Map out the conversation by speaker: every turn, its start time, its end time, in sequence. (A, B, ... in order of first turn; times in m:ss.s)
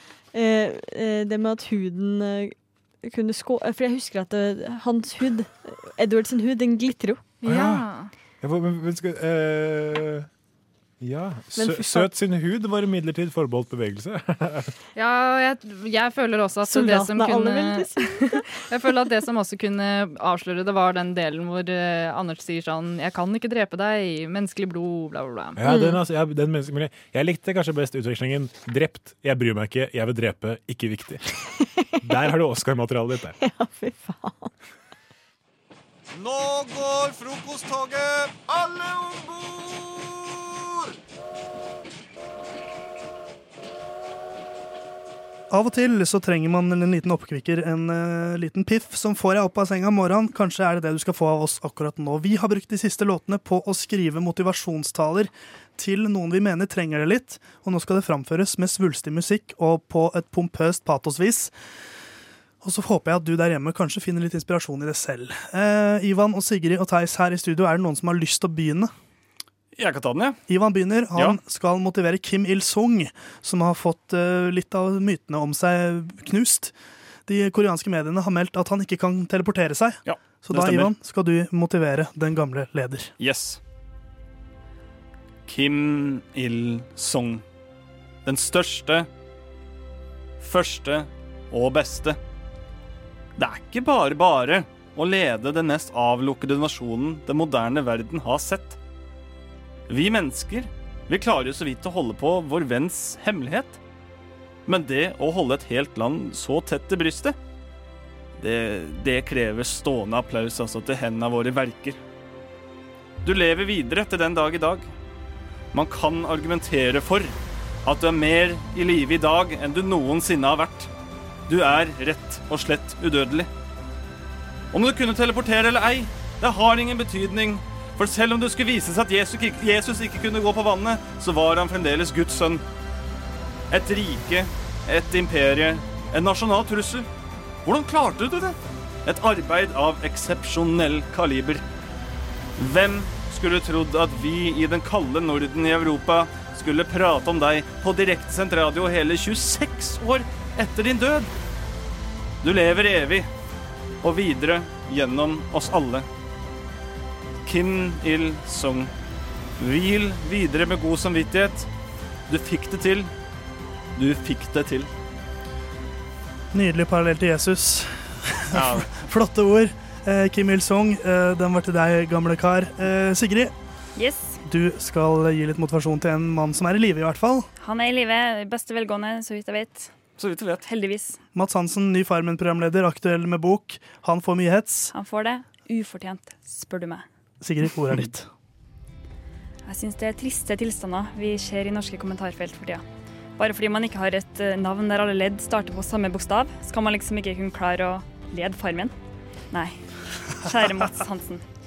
0:00.3-0:07.3 A
0:07.4-0:08.1 B
0:07.4-0:07.9 C
0:08.4-0:10.3 C
0:11.0-0:14.7 C
0:11.6-0:12.1 A
0:15.0-0:25.6 B
0:16.6-0:18.5 A
0:25.6-0:31.2 C
0:25.6-0:26.0 A
0:32.0-0:33.4 C
0:33.4-0:34.5 A
0:36.2-0:40.9 D
0:45.5-1:01.5 E
1:02.6-1:08.9 E
1:09.8-1:10.4 F
1:10.5-1:16.7 E
1:17.3-1:23.1 E
1:20.1-1:20.9 F
1:23.2-1:23.6 F
1:25.5-1:27.4 F
1:28.3-1:29.1 F
1:30.4-1:32.2 F
1:33.4-1:38.8 F
1:39.9-1:43.8 F
1:44.7-1:47.4 F
1:48.4-1:52.0 F
1:53.2-1:54.8 F
1:55.7-1:57.3 F
1:57.8-2:00.9 F
2:01.5-2:03.5 F
2:04.7-2:12.6 F
2:13.7-2:17.1 F
2:17.7-2:21.6 F
2:22.6-2:31.3 F
2:32.4-2:33.3 F
2:34.0-2:36.1 F
2:37.5-2:38.9 F
2:39.6-2:41.7 F
2:42.3-2:43.1 F
2:44.0-2:44.9 F
2:46.5-2:53.5 E
2:48.6-2:48.9 F
2:54.0-2:54.4 G
2:54.5-2:57.5 E
2:57.6-2:59.9 G
3:00.2-3:00.6 F
3:00.6-3:01.2 G
3:01.4-3:04.9 E
3:04.9-3:07.0 G
3:07.4-3:08.3 E
3:09.7-3:12.8 G
3:13.4-3:18.9 G
3:19.5-3:19.8 G
3:20.4-3:21.4 G